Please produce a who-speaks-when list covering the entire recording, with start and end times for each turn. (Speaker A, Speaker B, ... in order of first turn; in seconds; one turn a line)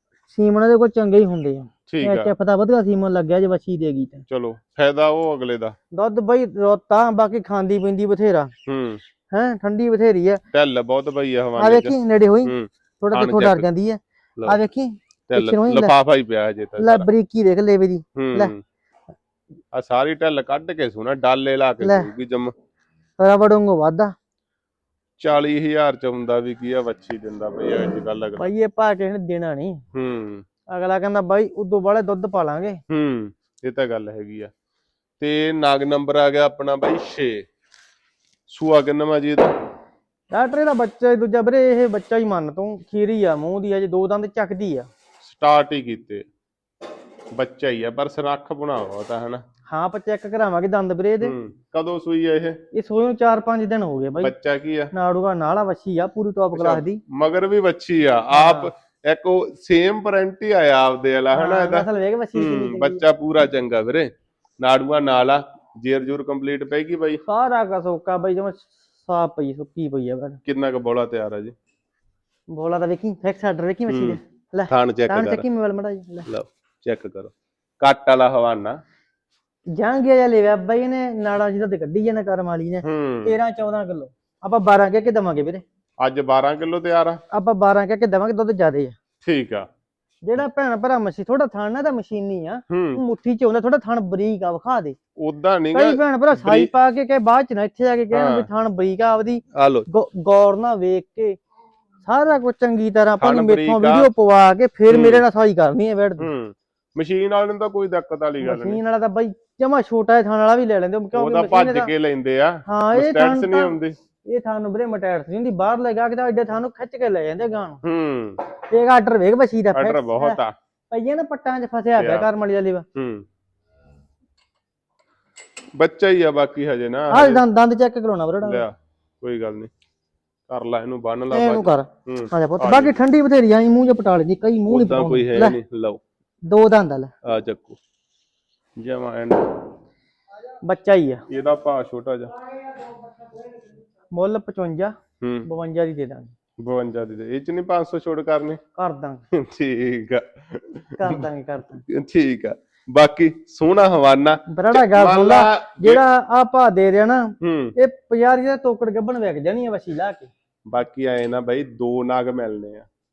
Speaker A: 0.3-4.2
Speaker B: 1.9-2.3
Speaker B: 4.3-5.8
Speaker A: 5.9-8.5
Speaker B: 8.7-9.0
Speaker A: 9.3-10.4
Speaker B: 10.5-13.7
Speaker A: 11.6-15.9
Speaker B: 15.3-17.1
Speaker A: 16.8-18.5
Speaker B: 18.1-18.6
Speaker B: 19.7-22.5
Speaker A: 21.8-22.1
Speaker A: 23.2-24.1
Speaker B: 25.2-28.5
Speaker A: 28.4-29.8
Speaker B: 29.9-30.4
Speaker A: 30.7-32.8
Speaker B: 32.9-34.5
Speaker B: 35.2-37.5
Speaker B: 38.5-39.5
Speaker A: 40.3-44.9
Speaker B: 45.2-46.2
Speaker B: 47.3-49.4
Speaker A: 49.7-51.4
Speaker B: 51.2-52.6
Speaker A: 52.7-54.3
Speaker B: 54.2-54.9
Speaker A: 54.9-57.0
Speaker B: 56.5-67.2
Speaker A: 58.3-58.7
Speaker A: 61.3-63.0
Speaker A: 67.2-70.4
Speaker B: 70.5-71.5
Speaker A: 72.5-76.3
Speaker B: 73.9-75.4
Speaker B: 76.2-78.8
Speaker A: 79.7-85.6
Speaker B: 82.8-83.4
Speaker B: 86.0-87.2
Speaker A: 87.3-89.0
Speaker B: 89.2-89.7
Speaker A: 90.2-95.0
Speaker B: 92.7-93.0
Speaker B: 95.2-96.7
Speaker A: 95.7-101.4
Speaker B: 98.1-98.5
Speaker B: 99.5-99.9
Speaker A: 102.0-106.3
Speaker B: 103.2-104.1
Speaker B: 104.9-105.2
Speaker B: 106.2-108.8
Speaker A: 108.4-111.9
Speaker B: 111.1-114.0
Speaker A: 112.7-117.8
Speaker B: 117.8-118.4
Speaker A: 118.7-120.4
Speaker B: 119.7-120.5
Speaker A: 120.9-122.8
Speaker B: 122.0-122.3
Speaker B: 122.9-123.2
Speaker B: 125.8-127.4
Speaker A: 127.1-128.6
Speaker B: 128.4-129.7
Speaker B: 130.5-133.0
Speaker A: 131.3-135.6
Speaker B: 134.7-136.0
Speaker A: 136.5-137.1
Speaker B: 137.2-137.8
Speaker B: 138.8-139.5
Speaker A: 140.6-141.2
Speaker B: 141.3-142.3
Speaker A: 144.1-144.9
Speaker B: 145.2-145.5
Speaker A: 145.4-146.3
Speaker B: 146.6-148.6
Speaker A: 148.8-149.2
Speaker B: 149.3-151.2
Speaker A: 151.0-151.8
Speaker B: 151.8-156.0
Speaker A: 154.5-160.3
Speaker B: 157.4-157.7
Speaker B: 160.7-162.9